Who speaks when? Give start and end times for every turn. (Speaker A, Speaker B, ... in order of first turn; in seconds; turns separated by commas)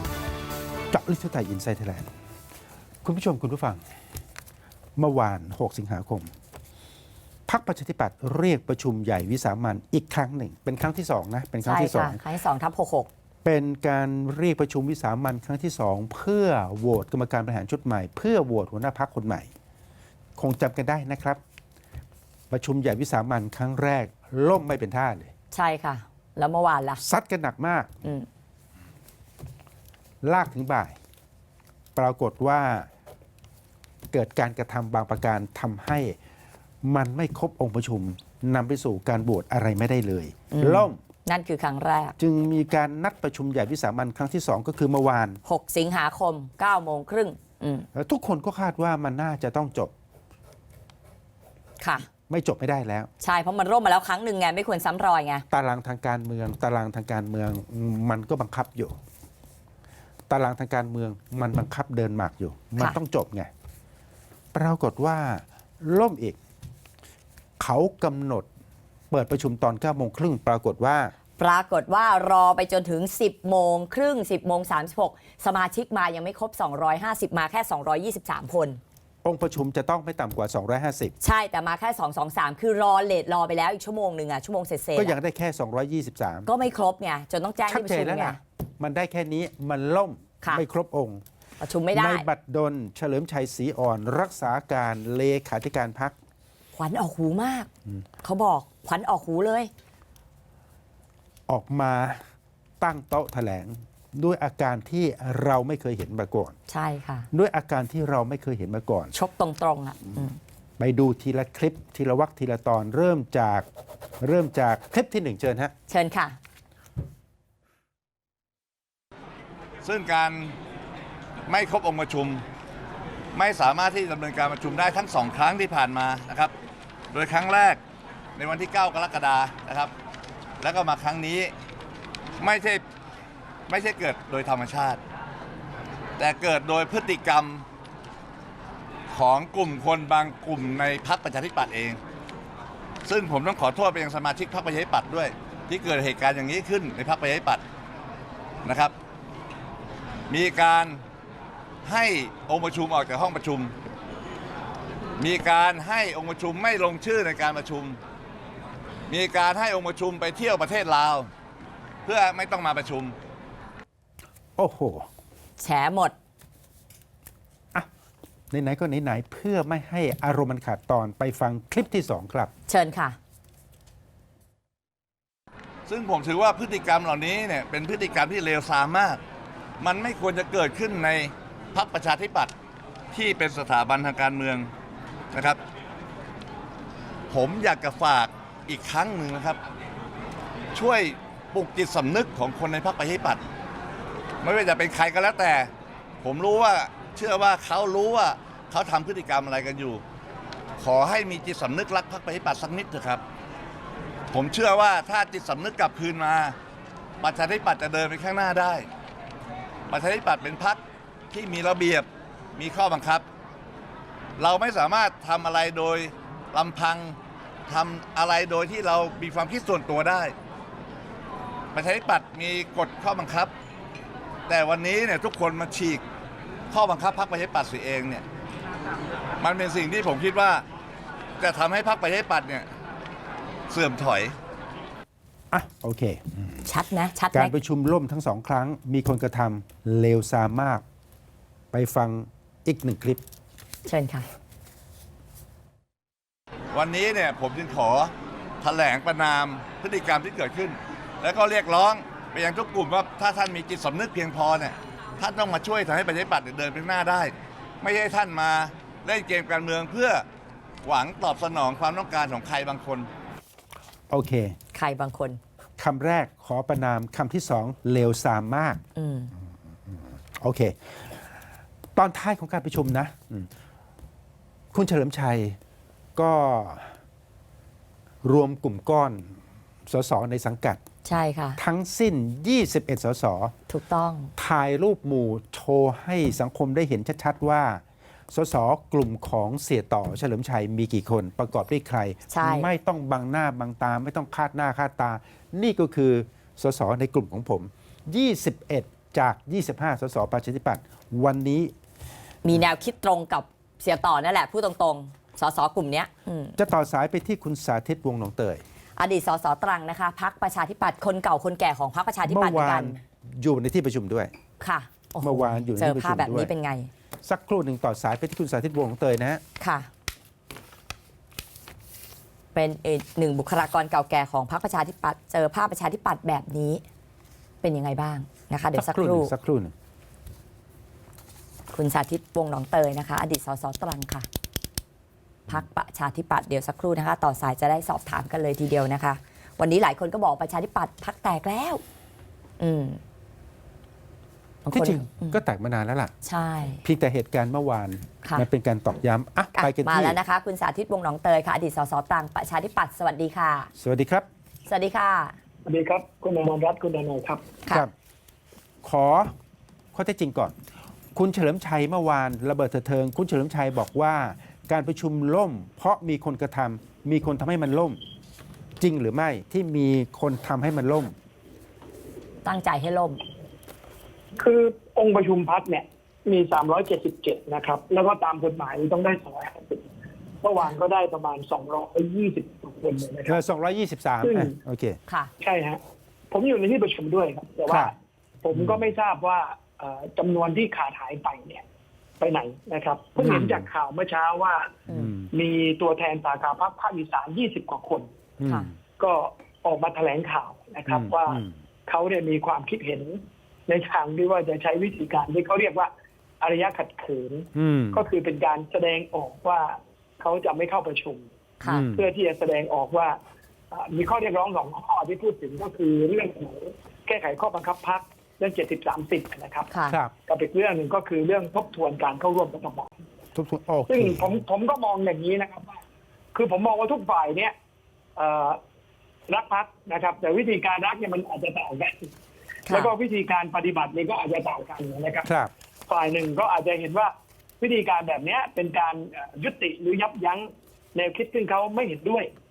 Speaker A: 0.9-2.1, Speaker A: 3.0-3.8, Speaker A: 5.0-6.3, Speaker A: 7.5-12.2, Speaker B: 11.6-13.1, Speaker A: 13.4-19.5, Speaker A: 20.4-21.4, Speaker A: 22.5-25.3, Speaker B: 25.5-27.0, Speaker A: 27.0-28.0, Speaker A: 30.2-30.9, Speaker A: 31.9-32.9, Speaker A: 34.1-36.1, Speaker A: 36.8-41.0, Speaker B: 40.5-42.2, Speaker A: 42.2-45.4, Speaker B: 45.4-47.9, Speaker A: 47.9-49.9, Speaker B: 51.8-52.1, Speaker A: 52.3-53.1, Speaker B: 53.2-55.4, Speaker A: 55.5-59.0, Speaker A: 60.3-63.5, Speaker A: 64.5-66.4, Speaker A: 67.6-68.5, Speaker A: 69.1-71.1, Speaker B: 71.4-78.8, Speaker A: 79.2-81.1, Speaker B: 81.2-85.2, Speaker A: 85.0-86.5, Speaker B: 86.5-88.4, Speaker A: 87.7-91.2, Speaker B: 91.6-92.2, Speaker A: 91.9-96.2, Speaker B: 96.7-97.7, Speaker B: 98.2-99.7, Speaker A: 101.5-102.2, Speaker A: 102.8-106.5, Speaker B: 106.7-107.3, Speaker A: 107.3-109.1, Speaker B: 109.1-110.4, Speaker A: 110.8-113.7, Speaker A: 114.2-115.7, Speaker B: 115.9-116.4, Speaker C: 119.8-120.5, Speaker C: 121.5-122.4, Speaker C: 123.3-126.5, Speaker C: 127.1-127.8, Speaker C: 128.4-129.9, Speaker C: 130.6-131.5, Speaker C: 132.4-132.8, Speaker C: 133.7-135.0, Speaker C: 136.2-137.6, Speaker C: 139.1-142.0, Speaker C: 143.0-147.6, Speaker C: 148.6-148.9, Speaker C: 150.3-151.0, Speaker C: 151.8-153.7, Speaker C: 155.2-158.0, Speaker C: 159.1-161.3, Speaker C: 162.0-163.2, Speaker A: 164.6-165.1, Speaker B: 165.6-166.1, Speaker A: 168.5-172.5, Speaker B: 172.7-173.2, Speaker C: 175.9-179.2, Speaker C: 179.8-182.5, Speaker C: 183.1-184.7, Speaker C: 185.3-185.6, Speaker C: 187.3-189.6, Speaker C: 190.7-193.4, Speaker C: 194.4-195.7, Speaker C: 196.2-200.0, Speaker C: 200.8-203.2, Speaker C: 204.3-206.6, Speaker C: 207.2-208.9, Speaker C: 209.9-213.2, Speaker C: 214.4-220.3, Speaker C: 221.7-223.5, Speaker C: 224.5-226.0, Speaker C: 226.7-228.2, Speaker C: 229.4-230.6, Speaker C: 231.4-232.7, Speaker C: 233.7-234.3, Speaker A: 235.5-236.6, Speaker B: 236.6-237.5, Speaker A: 237.3-240.8, Speaker A: 241.7-243.2, Speaker B: 243.8-244.3, Speaker C: 246.7-260.2, Speaker C: 260.8-263.1, Speaker A: 264.1-264.6, Speaker B: 264.7-265.4, Speaker A: 265.8-268.8, Speaker B: 268.9-269.3, Speaker A: 269.9-271.2, Speaker A: 271.9-273.5, Speaker A: 274.7-275.6, Speaker A: 276.1-276.9, Speaker A: 278.2-279.3, Speaker A: 279.9-280.8, Speaker B: 281.0-281.6, Speaker A: 281.6-283.5, Speaker B: 283.7-284.3, Speaker A: 284.4-301.7, Speaker B: 292.3-292.7, Speaker B: 302.4-306.6, Speaker A: 306.6-308.6, Speaker B: 309.0-313.0, Speaker A: 312.2-314.3, Speaker B: 314.6-316.9, Speaker A: 315.2-316.5, Speaker A: 317.2-319.4, Speaker B: 319.6-319.9, Speaker B: 322.5-326.8, Speaker B: 327.6-329.3, Speaker A: 328.7-329.7, Speaker B: 331.7-334.3, Speaker B: 335.5-341.8, Speaker B: 342.6-343.0, Speaker B: 344.6-345.4, Speaker A: 344.7-346.1, Speaker B: 346.2-346.8, Speaker A: 346.8-350.2, Speaker B: 349.5-353.7, Speaker A: 353.8-354.2, Speaker B: 354.7-355.3, Speaker D: 355.6-357.4, Speaker A: 358.8-359.3, Speaker A: 359.9-360.5, Speaker A: 361.1-368.0, Speaker A: 368.8-371.1, Speaker B: 372.4-373.2, Speaker D: 374.4-379.8, Speaker D: 380.4-383.4, Speaker A: 383.3-385.0, Speaker D: 384.2-384.6, Speaker D: 385.4-385.8, Speaker D: 386.3-391.6, Speaker D: 392.2-394.8, Speaker A: 393.2-393.6, Speaker A: 394.9-395.3, Speaker D: 395.3-398.1, Speaker A: 398.4-398.7, Speaker D: 399.0-411.3, Speaker A: 400.9-401.5, Speaker A: 407.5-408.0, Speaker B: 411.6-411.9, Speaker A: 411.6-412.1, Speaker D: 411.9-413.2, Speaker D: 413.7-419.7, Speaker B: 419.7-420.0, Speaker D: 420.3-423.0, Speaker A: 423.3-424.3, Speaker D: 423.9-425.8, Speaker D: 426.3-427.5, Speaker D: 428.1-428.6, Speaker D: 429.3-432.1, Speaker B: 432.7-432.9, Speaker D: 432.7-435.3, Speaker A: 435.2-435.5, Speaker D: 435.9-442.3